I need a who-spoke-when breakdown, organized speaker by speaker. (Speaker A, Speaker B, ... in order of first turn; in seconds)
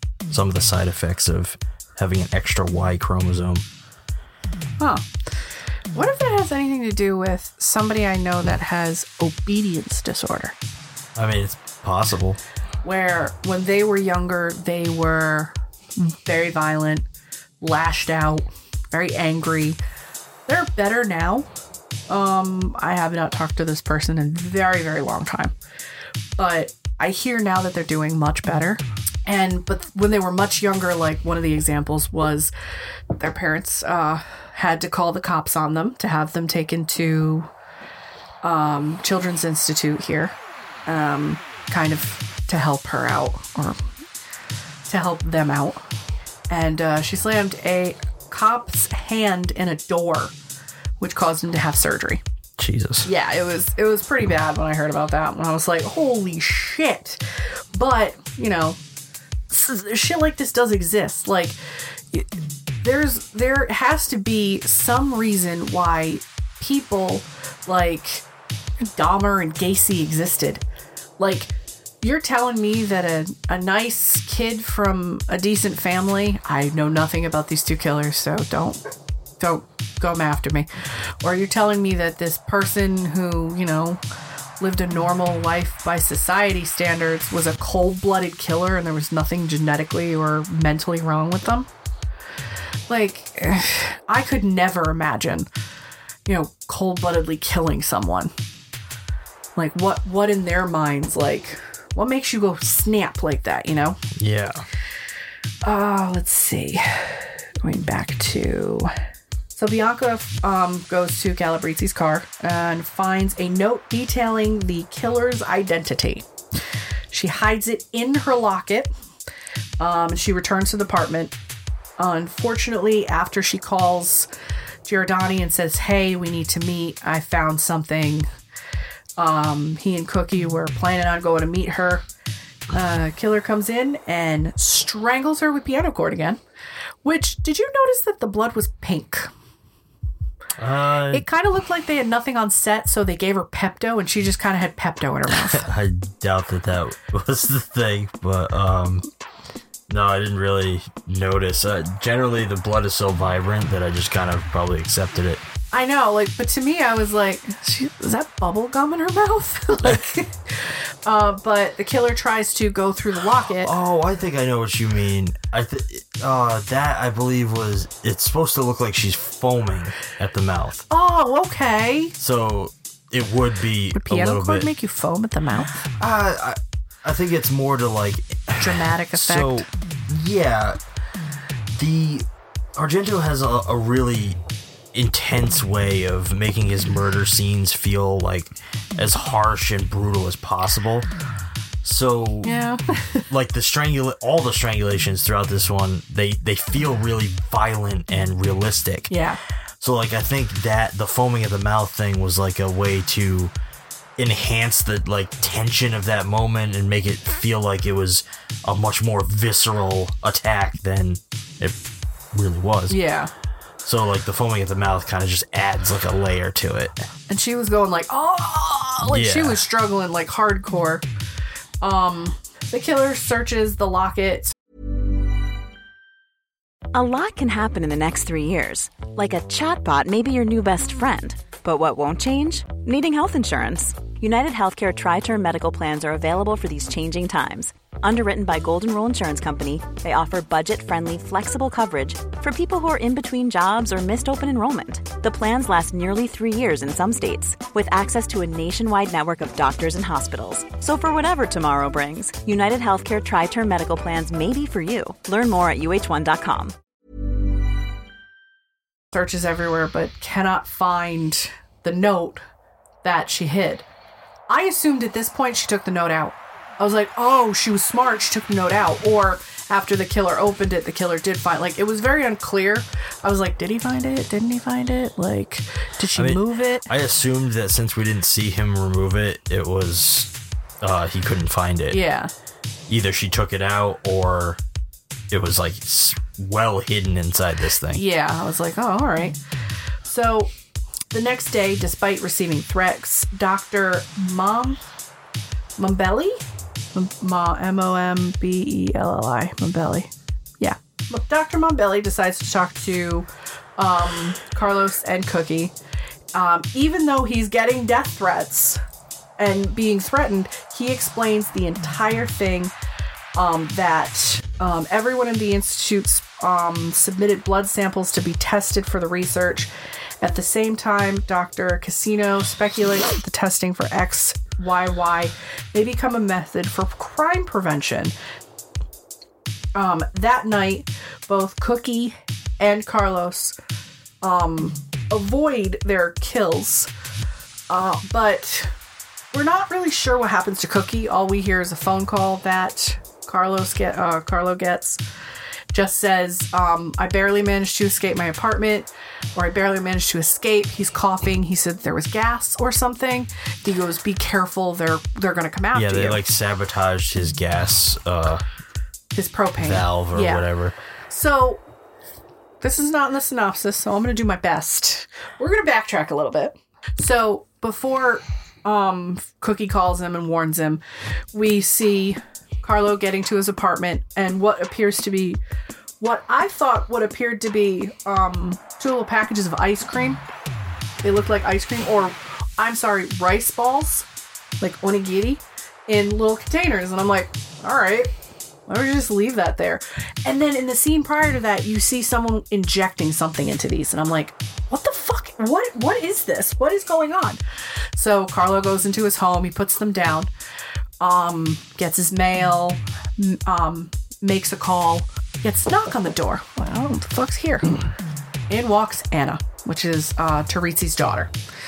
Speaker A: 0.3-3.6, 11.2-12.4, 52.6-53.1, 104.1-104.6, 140.6-141.2, 145.4-149.1, 149.9-155.4, 163.5-170.8, 172.2-174.7, 176.0-180.8, 181.7-184.4, 184.9-191.1, 191.8-192.6, 193.3-199.1, 199.8-203.5, 204.2-211.8, 212.3-213.0, 213.8-217.1, 219.0-219.6, 276.1-282.0, 282.9-284.6, 285.3-288.0, 355.7-358.4, 359.6-360.7
Speaker B: 4.8-5.0, 5.9-10.5, 12.8-17.1, 17.6-19.8, 20.5-21.5, 22.1-25.5, 26.4-32.5, 33.2-37.5, 38.4-43.8, 44.9-45.8, 46.5-50.3, 51.0-52.2, 53.0-57.2, 57.7-58.8, 59.5-61.6, 62.8-68.2, 68.8-70.6, 71.2-78.8, 79.4-80.7, 81.2-84.0, 84.6-91.7, 92.9-95.5, 96.2-98.3, 99.5-104.0, 105.6-108.9, 109.5-116.3, 117.1-118.9, 119.8-121.3, 122.0-124.3, 124.8-128.3, 129.2-132.0, 132.7-136.4, 137.0-139.3, 141.1-145.6, 155.7-163.7, 170.9-172.1, 173.9-175.8, 178.6-179.7, 192.4-193.2, 199.1-199.4, 212.9-213.3, 217.3-221.0, 221.8-224.5, 259.1-262.4, 263.0-263.8, 264.5-276.9, 281.9-282.3, 287.9-289.4, 290.0-290.5, 291.1-294.8, 295.8-296.4, 296.9-305.7, 306.3-308.8, 309.4-312.7, 313.3-319.7, 320.2-328.1, 329.7-333.6, 334.2-336.9, 337.7-338.7, 339.3-345.0, 345.7-356.2, 359.1-360.4, 361.1-361.6, 362.6-370.8, 371.3-375.4, 376.0-380.2, 381.0-384.1, 384.6-388.1, 388.7-397.4, 397.9-400.3, 401.0-407.8, 408.5-411.3
Speaker C: 226.9-256.7